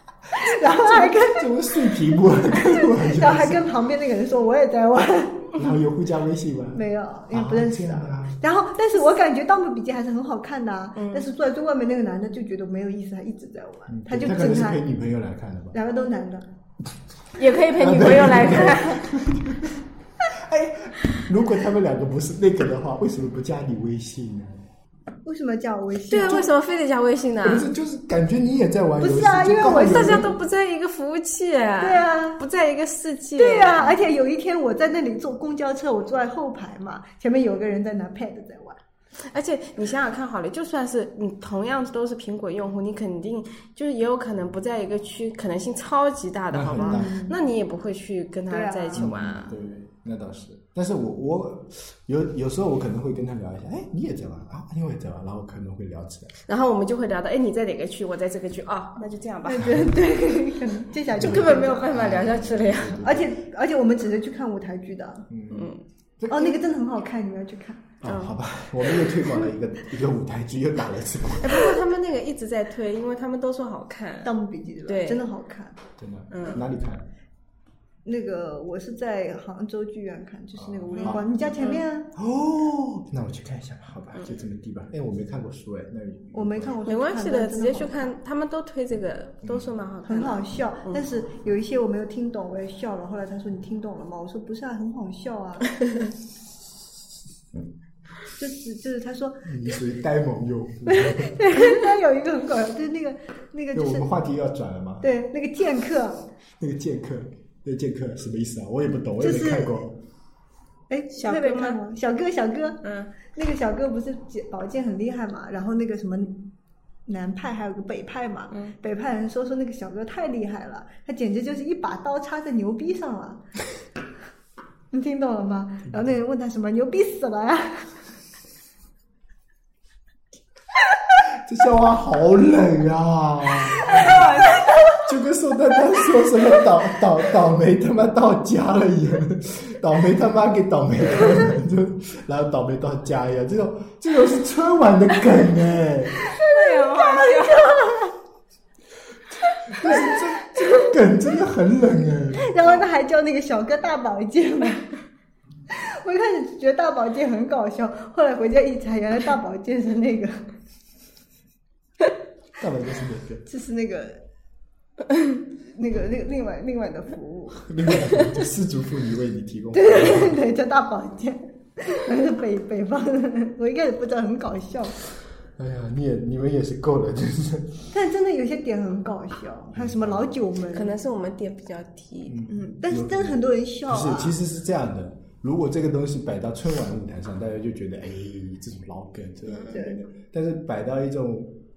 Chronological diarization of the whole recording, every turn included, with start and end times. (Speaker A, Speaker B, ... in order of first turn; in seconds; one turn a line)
Speaker A: 0.3-1.5
Speaker B: 0.6-3.7
Speaker A: 2.6-5.8
Speaker B: 5.5-8.4
Speaker A: 6.7-14.8
Speaker C: 11.0-11.2
Speaker B: 13.9-15.8
Speaker A: 15.7-16.4
Speaker C: 17.3-19.1
Speaker B: 17.7-24.6
Speaker A: 25.2-26.5
Speaker C: 26.1-27.7
Speaker B: 27.4-30.3
Speaker A: 29.0-30.3
Speaker C: 29.8-34.0
Speaker A: 31.8-32.4
Speaker A: 33.4-38.8
Speaker C: 39.3-49.6
Speaker B: 46.5-47.2
Speaker A: 46.8-47.3
Speaker A: 48.5-49.0
Speaker B: 48.9-56.3
Speaker C: 56.5-60.1
Speaker A: 59.4-62.0
Speaker C: 61.1-63.0
Speaker B: 61.1-63.4
Speaker A: 63.0-65.3
Speaker B: 65.3-66.7
Speaker C: 65.5-65.8
Speaker A: 66.3-67.9
Speaker B: 68.0-71.8
Speaker C: 68.0-68.4
Speaker C: 68.9-69.5
Speaker C: 71.4-74.3
Speaker A: 74.2-75.8
Speaker C: 74.9-75.3
Speaker B: 76.0-77.0
Speaker C: 76.3-76.7
Speaker A: 78.0-82.1
Speaker B: 80.5-81.5
Speaker C: 80.9-81.8
Speaker B: 82.1-86.8
Speaker A: 86.3-88.1
Speaker C: 86.8-91.0
Speaker B: 89.4-89.7
Speaker A: 90.0-95.7
Speaker A: 98.3-99.5
Speaker B: 99.4-101.4
Speaker A: 100.8-104.0
Speaker B: 103.7-105.1
Speaker A: 105.0-106.2
Speaker B: 106.6-110.0
Speaker A: 109.2-109.8
Speaker A: 110.9-116.4
Speaker C: 111.1-111.8
Speaker C: 112.8-113.1
Speaker A: 117.0-123.4
Speaker C: 118.5-118.8
Speaker A: 124.9-128.0
Speaker B: 131.2-134.2
Speaker C: 134.0-134.4
Speaker B: 134.9-146.2
Speaker C: 146.3-148.1
Speaker A: 146.3-148.1
Speaker B: 149.7-152.6
Speaker A: 152.3-154.9
Speaker A: 155.7-160.5
Speaker B: 162.6-163.4
Speaker A: 163.4-164.2
Speaker A: 165.6-167.7
Speaker B: 167.6-170.3
Speaker A: 169.7-175.0
Speaker B: 175.6-177.9
Speaker A: 177.9-180.9
Speaker B: 179.7-180.4
Speaker C: 180.7-182.7
Speaker B: 182.3-191.6
Speaker A: 182.5-184.3
Speaker C: 189.5-189.8
Speaker A: 189.7-190.0